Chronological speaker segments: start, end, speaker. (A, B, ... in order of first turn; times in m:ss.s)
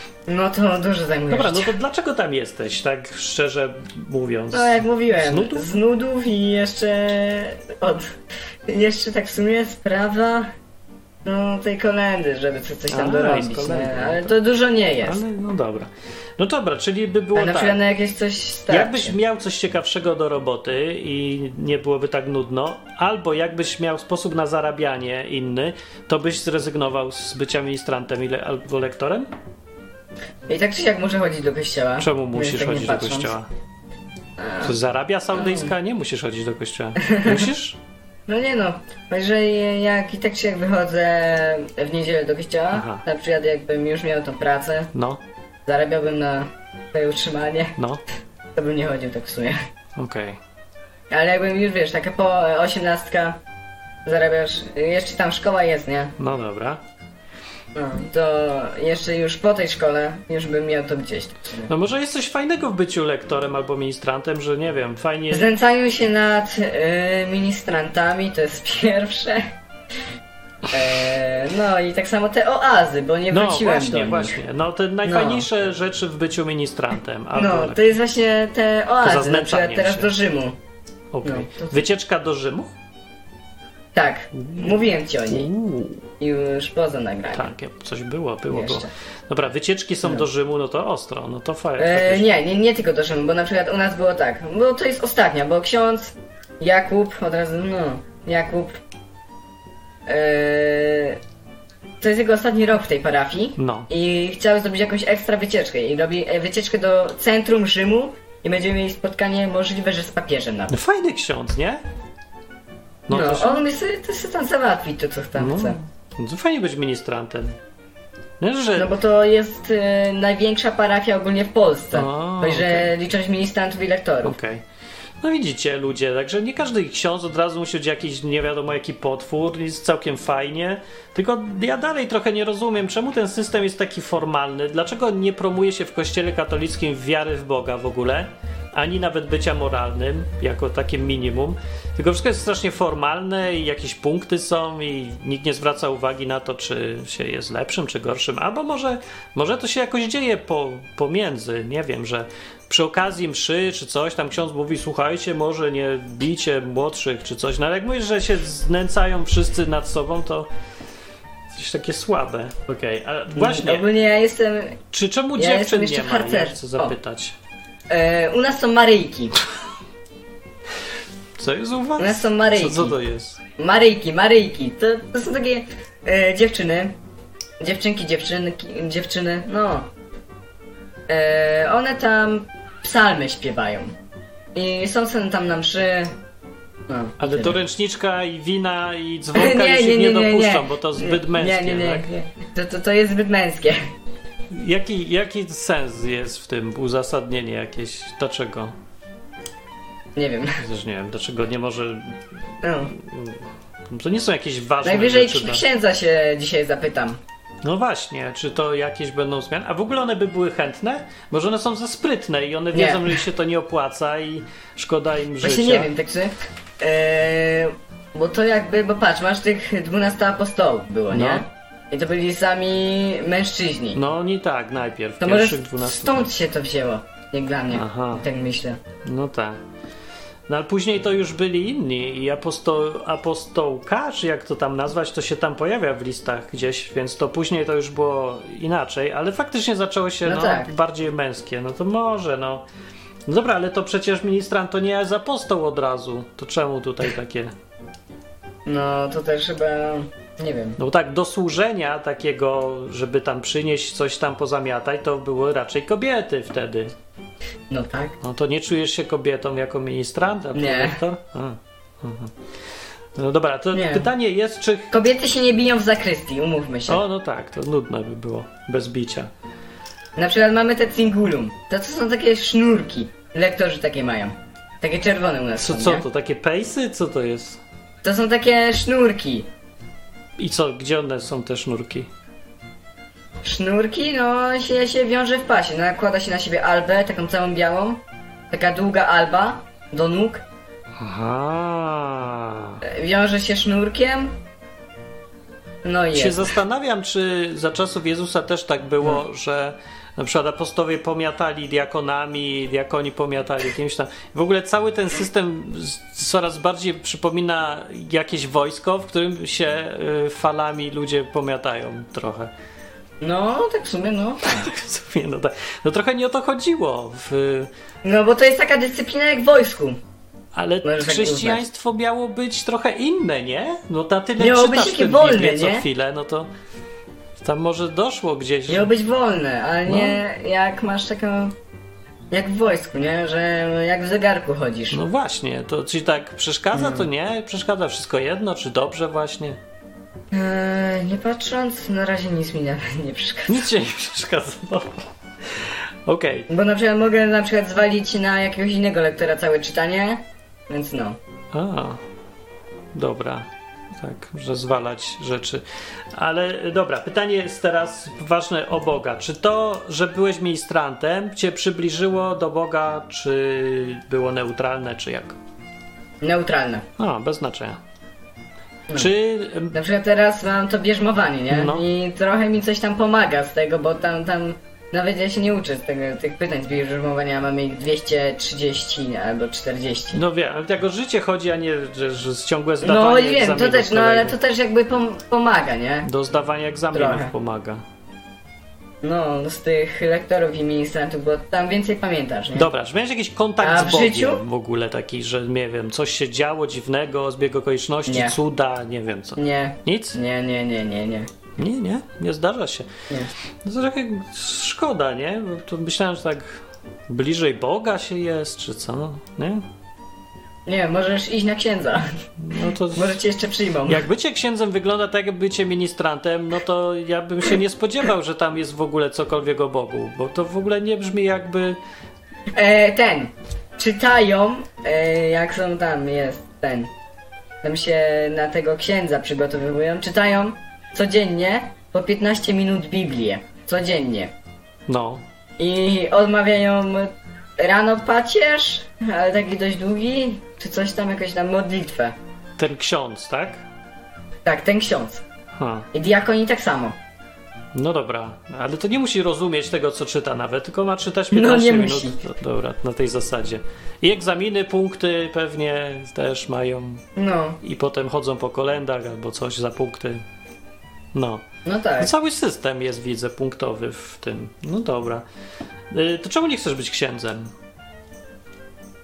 0:00.3-0:01.7 A
0:01.3-0:05.7 B
0:04.5-0:10.5 A
0:11.2-0:15.2 A
0:12.9-0:14.3 B
0:15.0-0:17.8 B
0:17.3-0:19.2 A
0:18.7-0:29.3 B
0:30.5-0:33.4 A
0:32.0-0:33.5 B
0:34.4-0:34.7 A
0:34.6-0:37.8 B
0:35.3-0:35.7 A
0:37.0-0:37.5 A
0:38.3-0:44.9 A
0:42.7-0:43.0 B
0:44.9-0:45.2 B
0:45.6-0:47.8 A
0:47.8-0:48.0 B
0:48.5-0:49.6 A
0:50.0-0:50.4 B
0:51.1-0:53.4 A
0:54.0-0:56.1 A
0:56.2-0:56.8 B
0:57.7-1:01.7 A
1:01.6-1:05.5 B
1:05.3-1:09.5 A
1:10.7-1:14.4 A
1:13.3-1:18.0 B
1:15.0-1:15.5 A
1:17.3-1:20.6 A
1:19.0-1:20.1 B
1:21.1-1:22.7 B
1:21.2-1:21.8 A
1:23.9-1:25.5 A
1:24.3-1:26.0 B
1:26.2-1:27.5 A
1:27.3-1:32.3 B
1:28.5-1:28.9 A
1:31.8-1:38.8 A
1:40.0-1:41.2 A
1:42.0-1:50.8 A
1:43.6-1:43.9 B
1:50.7-1:51.8 B
1:53.1-1:53.6 B
1:53.1-1:55.8 A
1:55.4-1:57.6 B
1:58.4-1:58.9 B
1:58.8-2:04.4 A
2:01.9-2:02.9 B
2:04.2-2:04.6 B
2:05.2-2:40.5 B
2:41.5-2:43.9 B
2:43.3-2:44.8 A
2:44.9-2:47.3 B
2:45.4-2:47.0 A
2:47.9-2:49.3 A
2:51.4-2:53.4 B
2:52.0-2:53.0 A
2:53.6-2:56.9 A
2:57.6-2:59.9 A
3:01.1-3:03.9 A
3:04.5-3:06.1 A
3:06.9-3:07.6 A
3:07.2-3:12.1 B
3:09.3-3:13.8 A
3:14.5-3:18.7 B
3:20.1-3:20.6 A
3:20.6-3:22.2 B
3:22.6-3:22.9 A
3:22.8-3:25.6 B
3:24.8-3:27.2 A
3:27.6-3:35.9 B
3:32.7-3:33.2 A
3:35.4-3:44.0 A
3:41.1-3:41.4 B
3:43.9-3:46.3 B
3:45.2-3:48.8 A
3:47.7-3:48.2 B
3:49.0-3:49.6 B
3:50.5-4:02.6 B
4:00.2-4:00.7 A
4:03.3-4:07.5 B
4:08.6-4:10.8 A
4:10.8-4:16.9 B
4:17.7-4:18.2 A
4:18.2-4:22.3 B
4:20.5-4:21.0 A
4:23.1-4:24.9 B
4:23.7-4:24.0 A
4:24.9-4:27.0 A
4:26.9-4:29.3 B
4:30.2-4:36.0 A
4:35.6-4:37.6 B
4:38.0-4:39.5 A
4:40.4-4:42.1 B
4:43.4-4:50.4 A
4:51.0-4:52.8 B
4:52.8-4:54.4 A
4:55.8-4:56.5 A
4:56.1-5:12.5 B
5:13.2-5:14.7 A
5:14.4-5:17.7 B
5:18.0-5:20.0 A
5:20.5-5:26.5 B
5:20.8-5:21.6 A
5:24.4-5:25.8 A
5:27.4-5:28.9 B
5:28.7-5:31.5 A
5:29.8-5:30.2 B
5:32.3-5:35.0 A
5:34.9-5:39.6 B
5:36.7-5:37.1 A
5:40.3-5:43.7 A
5:43.5-5:46.5 B
5:46.5-5:51.2 A
5:51.5-5:52.0 B
5:52.9-6:05.4 B
6:06.2-6:06.8 A
6:07.0-6:07.8 B
6:08.9-6:09.7 B
6:09.7-6:20.2 A
6:11.5-6:11.8 B
6:20.1-6:24.4 B
6:22.8-6:26.1 A
6:26.0-6:27.8 B
6:26.9-6:27.3 A
6:29.0-6:32.7 A
6:32.5-6:40.2 B
6:33.6-6:34.4 A
6:38.1-6:38.4 A
6:39.4-6:41.3 A
6:41.6-6:43.0 B
6:43.6-6:49.6 B
6:50.6-6:52.2 A
6:52.4-6:53.2 B
6:52.9-6:54.0 A
6:53.8-7:01.8 B
7:02.5-7:06.9 A
7:07.6-7:14.3 A
7:14.9-7:15.2 B
7:15.6-7:22.1 A
7:22.6-7:23.6 B
7:24.4-7:25.2 A
7:25.5-7:25.9 B
7:25.9-7:27.0 A
7:27.7-7:37.0 B
7:31.3-7:32.2 A
7:37.2-7:37.6 A
7:37.6-7:40.2 B
7:41.1-7:41.4 B
7:41.6-7:42.1 A
7:42.0-7:45.2 B
7:45.9-7:47.5 B